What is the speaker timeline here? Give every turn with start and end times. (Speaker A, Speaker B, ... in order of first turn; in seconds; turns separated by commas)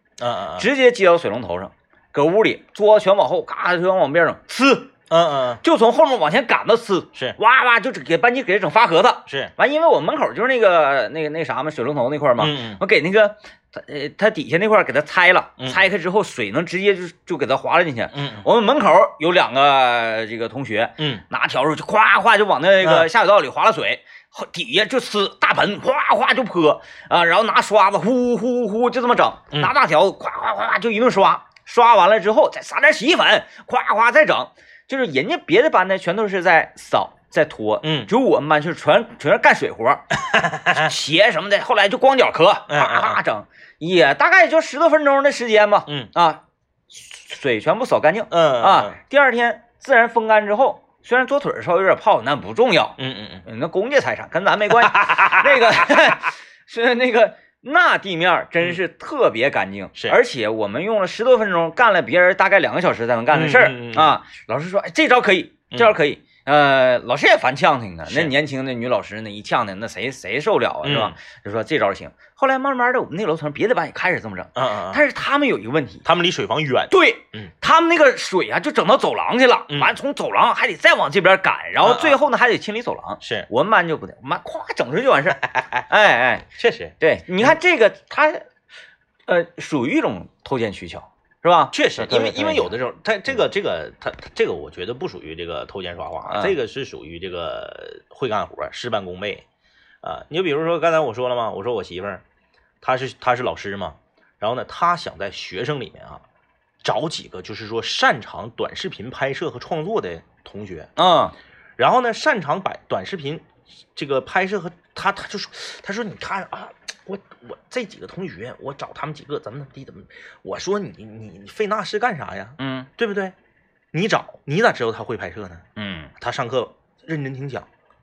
Speaker A: 0.2-0.7, Speaker B: 0.6-4.9, Speaker A: 5.1-5.6, Speaker B: 5.6-40.0, Speaker A: 12.4-12.8, Speaker A: 18.1-18.5, Speaker A: 22.8-23.1, Speaker A: 37.8-38.1, Speaker A: 40.2-40.9, Speaker B: 40.7-76.0, Speaker A: 42.7-43.2, Speaker A: 48.3-49.0, Speaker A: 53.0-53.5, Speaker A: 54.8-56.0, Speaker A: 63.3-64.2, Speaker A: 68.1-68.3, Speaker A: 70.8-71.2, Speaker A: 74.5-75.0, Speaker A: 76.0-77.5, Speaker B: 76.9-86.5, Speaker A: 81.8-82.2, Speaker A: 83.2-83.5, Speaker A: 85.5-85.8, Speaker A: 86.6-87.0, Speaker B: 87.0-88.5, Speaker B: 89.3-92.7, Speaker A: 91.7-99.4, Speaker B: 96.3-96.5, Speaker A: 100.0-102.2, Speaker A: 102.8-106.2, Speaker A: 106.8-110.9, Speaker B: 111.0-111.3, Speaker A: 111.8-123.3, Speaker B: 122.6-122.9, Speaker A: 123.9-125.6, Speaker B: 125.8-126.1, Speaker A: 126.2-127.7